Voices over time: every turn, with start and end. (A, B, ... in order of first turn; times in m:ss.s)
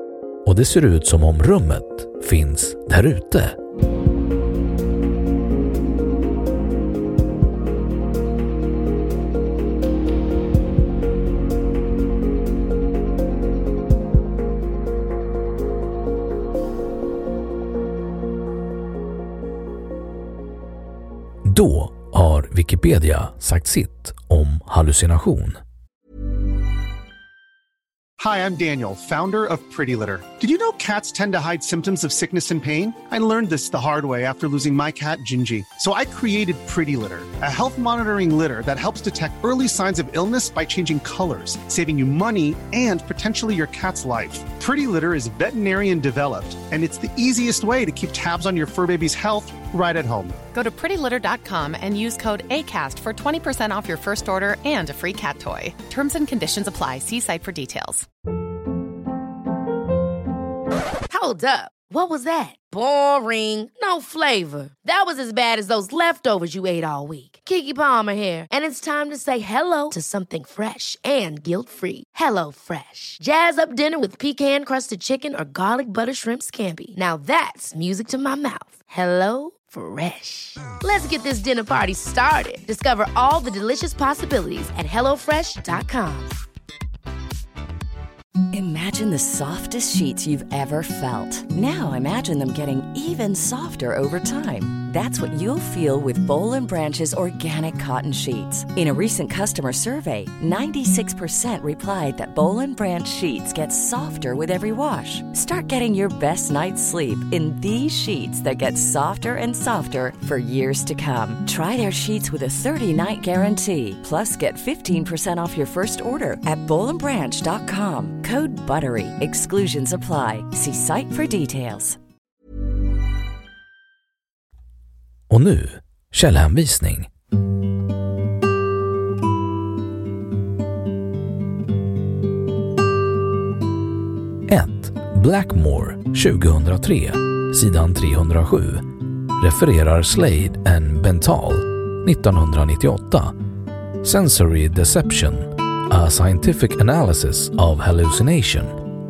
0:00.4-0:03.6 A
0:21.5-0:25.6 A
0:28.2-0:50.4 B
0:50.5-0:58.0 C
1:01.1-1:26.3 D
1:28.5-2:02.0 E
2:05.3-2:07.1 A
2:14.5-2:18.9 A
2:19.4-2:23.3 A
2:24.0-2:28.7 A